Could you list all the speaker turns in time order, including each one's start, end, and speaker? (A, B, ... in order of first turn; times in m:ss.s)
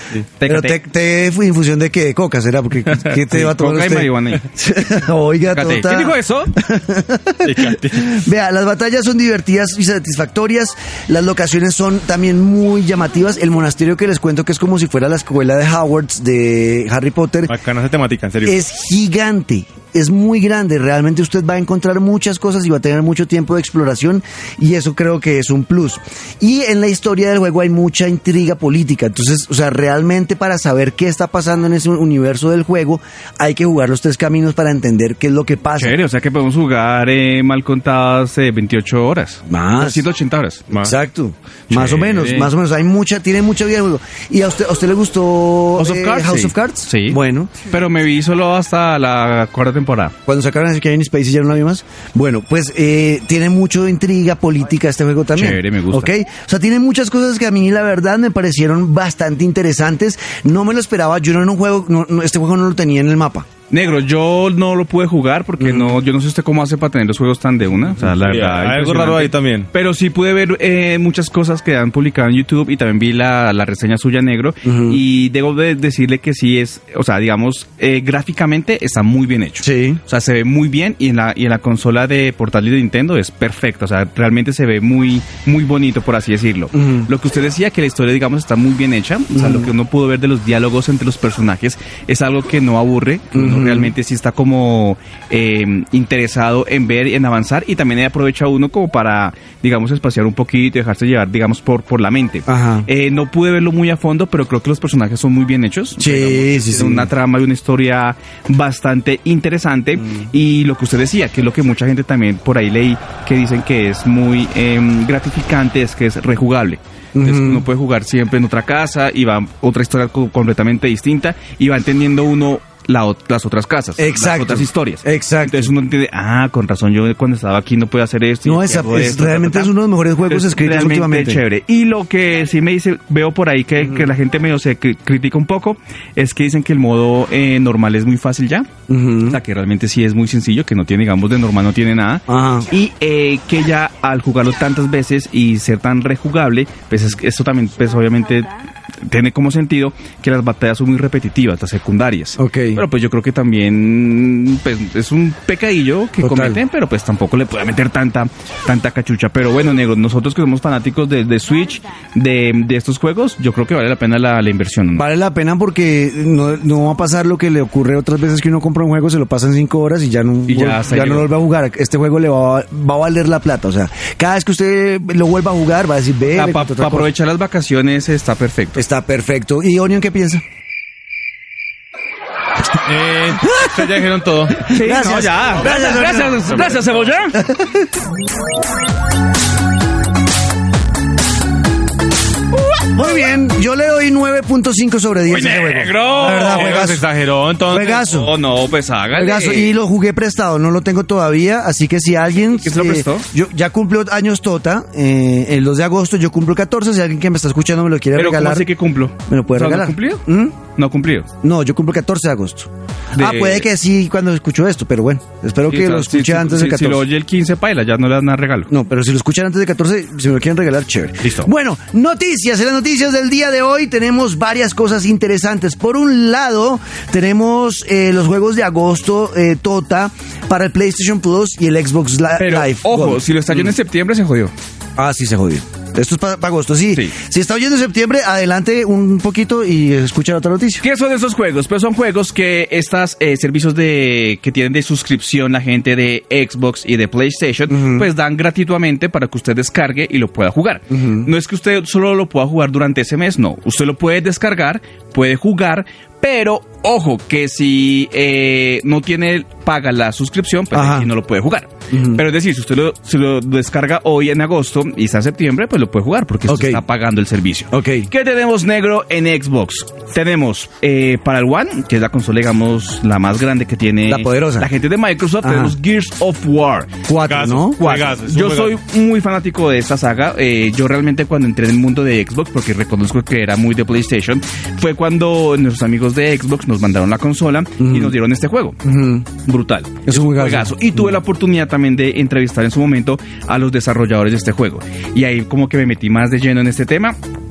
0:00.4-0:00.8 A
0:00.4-0:17.5 B
0:03.3-0:04.4 A
0:05.5-0:06.5 A
0:07.4-0:08.2 C
0:17.5-0:18.6 C
0:18.4-0:36.0 B
0:35.8-0:40.7 A
0:39.5-0:40.0 B
0:40.8-0:47.6 B
0:41.7-0:42.5 A
0:45.8-0:50.1 A
0:50.2-1:03.5 B
0:55.3-0:56.1 A
1:03.7-2:09.7 A
1:05.6-1:06.0 B
1:08.2-1:09.7 C
1:14.6-1:15.0 B
1:19.6-1:20.0 B
1:26.7-1:27.1 B
1:29.3-1:29.7 B
1:33.3-1:33.9 B
1:42.5-1:42.9 B
1:46.0-1:47.1 B
1:57.1-1:57.6 B
2:04.0-2:05.7 B
2:08.4-2:11.4 B
2:10.3-2:18.7 A
2:13.8-2:14.1 B
2:18.9-2:19.4 B
2:19.2-2:28.5 A
2:22.3-2:22.7 B
2:29.1-2:45.0 A
2:32.4-2:32.8 B
2:36.2-2:36.6 B
2:45.0-2:57.1 B
2:50.5-2:51.3 A
2:56.3-2:58.8 A
2:58.8-3:00.4 B
3:02.8-3:04.6 C
3:03.4-3:03.9 B
3:04.6-3:07.4 A
3:04.7-3:06.7 B
3:06.5-3:06.8 C
3:07.3-3:07.9 B
3:12.9-3:17.0 B
3:15.3-3:16.9 A
3:16.2-3:18.0 C
3:17.7-3:18.3 B
3:18.0-3:19.7 A
3:19.2-3:28.7 B
3:22.5-3:23.2 A
3:28.1-3:31.3 A
3:29.3-3:30.5 B
3:31.4-3:37.0 B
3:33.1-3:33.7 A
3:35.7-3:38.7 A
3:38.7-3:53.7 B
3:41.2-3:41.5 A
3:52.4-3:54.5 A
3:55.0-4:00.8 B
4:00.8-4:37.0 A
4:07.7-4:08.1 B
4:10.9-4:11.3 B
4:20.7-4:21.1 B
4:21.9-4:22.2 B
4:26.5-4:26.8 B
4:27.7-4:28.1 B
4:34.1-4:34.7 B
4:35.4-4:35.8 B
4:37.1-4:37.8 B
4:37.2-4:38.8 C
4:37.6-4:48.8 A
4:47.8-4:48.1 B
4:48.8-4:49.2 B
4:49.3-4:57.2 A
4:50.0-4:51.2 B